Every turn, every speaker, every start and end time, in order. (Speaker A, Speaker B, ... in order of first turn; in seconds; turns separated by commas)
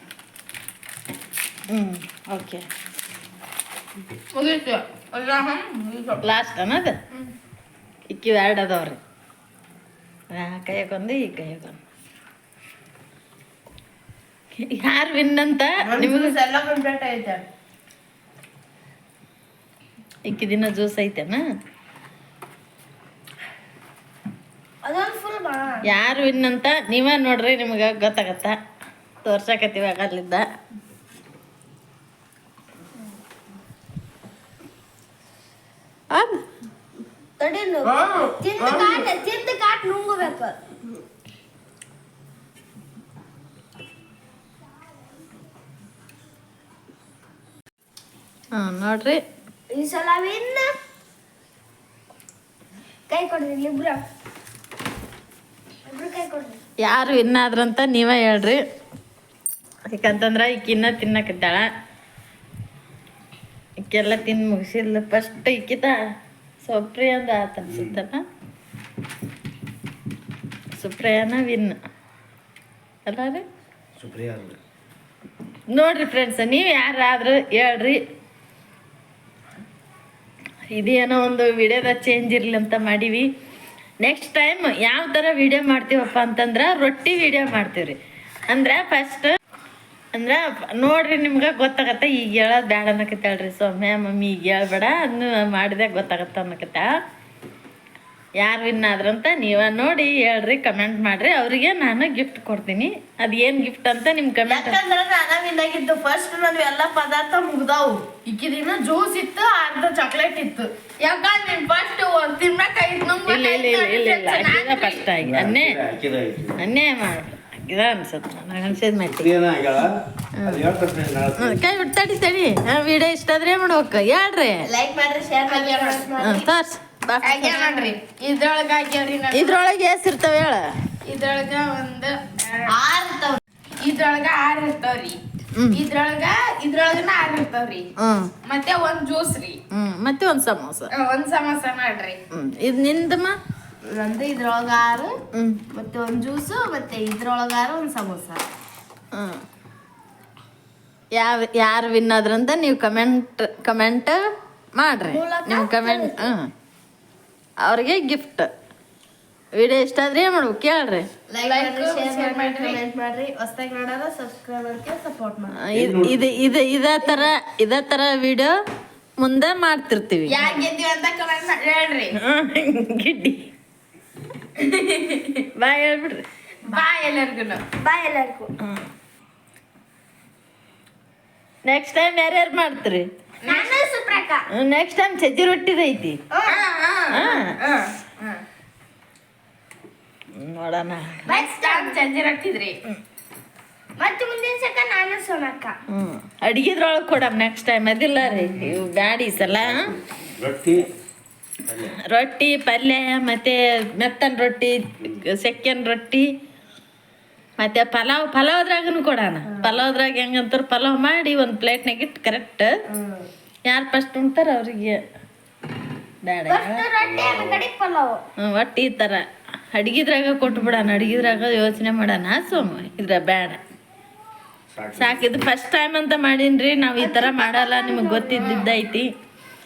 Speaker A: 1.7-2.6, Speaker B: 4.3-6.2, Speaker A: 6.2-7.0, Speaker A: 8.1-9.0, Speaker A: 10.3-11.8, Speaker A: 14.6-16.4, Speaker C: 15.8-17.4, Speaker A: 20.2-21.4, Speaker D: 24.8-25.8, Speaker A: 25.9-28.6, Speaker A: 29.2-30.4, Speaker D: 37.4-40.6, Speaker A: 48.6-49.2, Speaker D: 49.7-50.7, Speaker D: 53.1-54.0, Speaker D: 55.9-56.6, Speaker A: 56.8-58.6, Speaker A: 59.9-61.7, Speaker A: 63.9-66.0, Speaker A: 66.6-68.2, Speaker A: 70.8-71.8, Speaker A: 73.0-73.4, Speaker E: 74.0-74.6, Speaker A: 75.7-78.0, Speaker A: 80.7-83.3, Speaker A: 84.0-88.0, Speaker A: 88.5-89.3, Speaker A: 90.1-96.9, Speaker A: 98.4-104.8, Speaker C: 104.5-108.1, Speaker B: 108.2-115.1, Speaker C: 109.5-110.5, Speaker A: 113.2-115.8, Speaker E: 115.2-116.6, Speaker A: 116.6-119.3, Speaker E: 119.1-121.6, Speaker A: 120.4-120.7, Speaker A: 121.4-124.7, Speaker C: 124.7-126.5, Speaker B: 125.4-126.3, Speaker A: 126.2-127.8, Speaker B: 127.2-129.5, Speaker A: 129.3-130.7, Speaker B: 131.0-132.8, Speaker C: 132.7-133.4, Speaker B: 133.8-135.2, Speaker A: 135.5-135.8, Speaker B: 135.7-137.9, Speaker A: 138.0-138.3, Speaker B: 138.4-139.6, Speaker A: 139.7-140.9, Speaker B: 140.9-142.2, Speaker A: 142.3-143.3, Speaker C: 143.8-145.1, Speaker A: 145.3-145.6, Speaker C: 145.7-148.4, Speaker A: 151.1-154.2, Speaker A: 154.8-156.5, Speaker D: 155.1-156.3, Speaker A: 157.6-158.5, Speaker A: 159.5-161.1, Speaker C: 161.3-165.6, Speaker B: 161.4-162.8, Speaker A: 165.5-168.5, Speaker E: 165.7-166.3, Speaker A: 169.2-170.7, Speaker B: 170.3-172.2, Speaker A: 172.2-173.5, Speaker B: 174.6-175.1, Speaker A: 175.5-176.2, Speaker B: 176.6-177.6, Speaker D: 177.8-178.5, Speaker A: 181.7-183.1, Speaker B: 183.4-183.7, Speaker D: 183.4-184.4, Speaker A: 184.5-186.2, Speaker D: 186.3-186.7, Speaker B: 186.5-188.4, Speaker A: 187.1-187.4, Speaker A: 190.4-191.3, Speaker D: 191.2-192.0, Speaker B: 191.4-192.8, Speaker D: 194.0-195.7, Speaker A: 195.9-199.9, Speaker E: 198.6-198.8, Speaker E: 199.6-200.9, Speaker A: 202.1-206.3, Speaker A: 207.6-212.7, Speaker A: 213.7-215.0, Speaker A: 216.2-216.8, Speaker D: 216.5-218.2, Speaker E: 217.0-217.6, Speaker A: 218.4-223.6, Speaker E: 224.7-225.4, Speaker A: 224.9-229.1, Speaker D: 227.0-228.7